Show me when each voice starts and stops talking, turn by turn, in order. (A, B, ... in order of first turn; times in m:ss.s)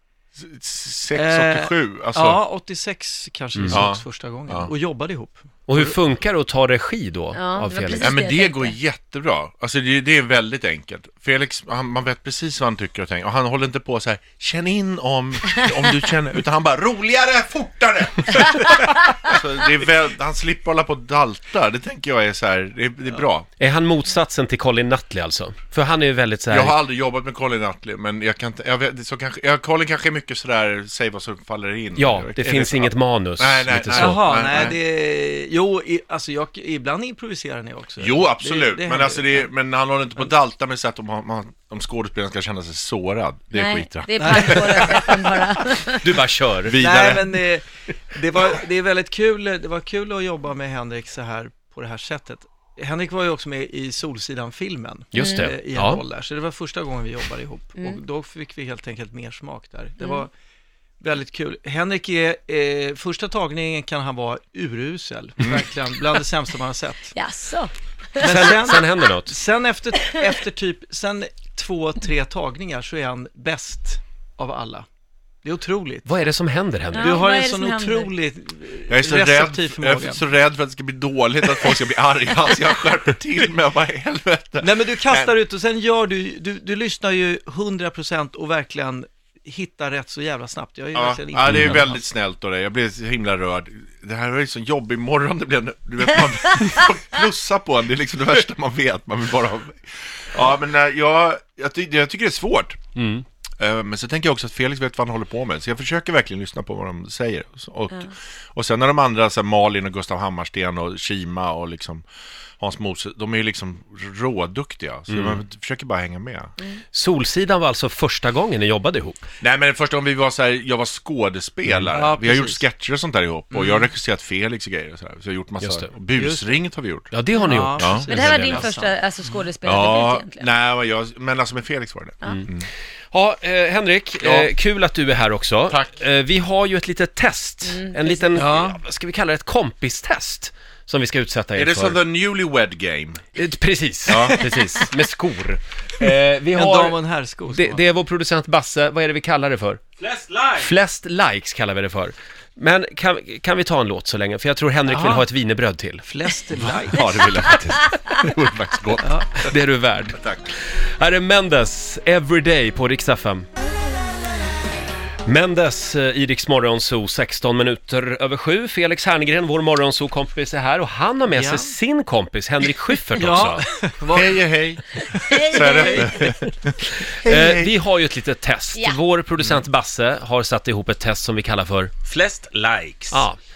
0:00.4-0:02.4 A
0:01.2-0:06.0 B
0:03.6-0:03.8 C
0:03.7-0:04.7 A
0:05.7-0:08.1 C
0:07.4-0:08.7 D
0:08.0-0:23.5 A
0:23.6-0:26.8 C
0:26.5-0:34.8 A
0:32.0-0:34.2 C
0:34.0-0:39.5 B
0:38.0-0:45.3 A
0:43.5-0:46.2 D
0:44.2-0:45.1 B
0:46.0-0:46.9 C
0:46.0-0:47.4 A
0:46.8-1:00.3 B
0:55.1-0:56.0 C
0:55.2-0:55.5 D
1:01.0-1:07.1 B
1:07.1-1:08.8 D
1:08.2-1:09.3 C
1:08.2-1:14.9 B
1:10.0-1:10.4 D
1:15.4-1:16.1 B
1:16.0-1:17.2 C
1:16.9-1:18.1 D
1:17.0-1:20.2 B
1:18.9-1:25.3 A
1:24.6-1:32.0 B
1:30.9-1:42.8 A
1:31.5-1:31.9 C
1:43.0-1:43.2 C
1:43.6-1:52.0 A
1:52.6-1:56.5 A
1:55.1-1:55.4 C
1:56.9-1:59.2 C
1:59.4-2:07.1 A
2:01.9-2:02.6 B
2:03.5-2:03.9 B
2:05.6-2:05.9 C
2:06.2-2:06.6 B
2:07.1-2:08.7 C
2:07.4-2:09.0 B
2:07.8-2:08.2 A
2:08.1-2:10.5 D
2:09.6-2:12.7 A
2:13.1-2:22.0 C
2:14.2-2:14.5 A
2:15.7-2:16.0 A
2:17.7-2:18.3 D
2:18.4-2:18.8 B
2:21.6-2:23.2 A
2:23.4-2:29.8 C
2:24.1-2:24.5 A
2:24.2-2:24.9 B
2:26.5-2:27.8 B
2:30.0-2:30.7 E
2:30.6-2:36.1 C
2:34.9-2:35.3 B
2:36.0-2:37.1 B
2:36.6-2:39.5 A
2:39.4-2:43.5 C
2:40.2-2:40.4 A
2:45.2-2:53.6 C
2:51.3-2:51.7 B
2:53.1-2:54.4 B
2:54.1-2:57.8 A
2:55.0-2:56.2 B
2:55.3-2:56.3 D
2:57.0-3:01.9 C
2:58.8-2:59.0 D
3:02.0-3:03.3 E
3:03.1-3:03.4 C